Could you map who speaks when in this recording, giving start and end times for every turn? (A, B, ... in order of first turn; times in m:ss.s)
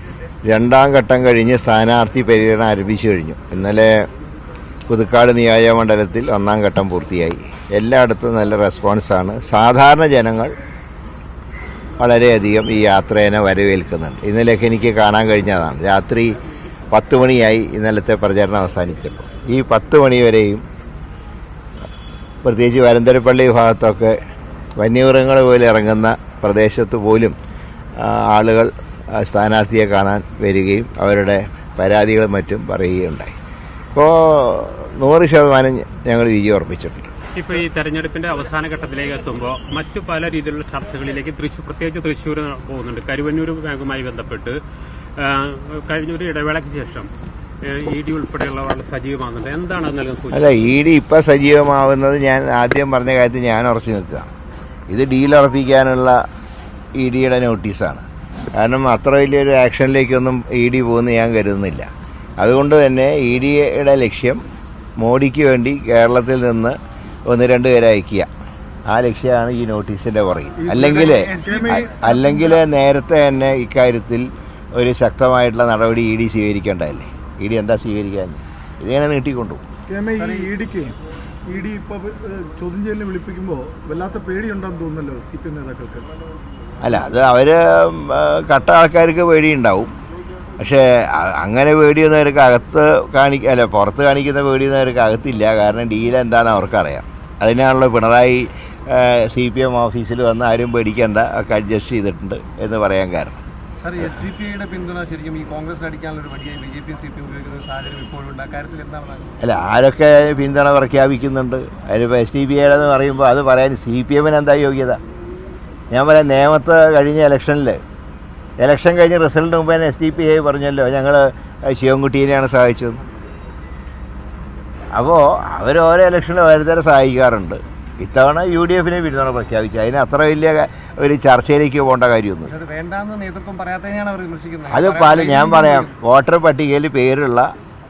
0:00.5-0:04.0 A
0:04.9-0:10.5 A
0:12.0-0:16.3 A
0:16.9-0:20.6 A
0:22.4-0:24.2 A
0:24.8-0:27.3 A
0:28.0-0:33.3 A
0:34.0-0:37.1 A
0:37.3-0:44.6 B
0:45.2-0:47.1 B
0:47.6-0:50.7 B
0:50.3-0:54.3 A
0:54.9-0:56.2 A
0:57.0-1:01.9 A
1:02.4-1:04.4 A
1:05.0-1:06.8 A
1:07.3-1:08.3 A
1:08.9-1:11.3 A
1:10.6-1:11.9 C
1:10.7-1:12.6 D
1:11.9-1:19.6 A
1:19.9-1:20.9 C
1:20.2-1:20.5 D
1:21.5-1:26.1 C
1:26.8-1:29.9 A
1:30.6-1:43.4 A
1:43.8-1:49.4 D
1:49.4-1:55.0 A
1:55.9-1:57.8 A
1:58.6-2:03.0 A
2:04.9-2:12.5 A
2:12.5-2:15.9 D
2:14.7-2:17.5 A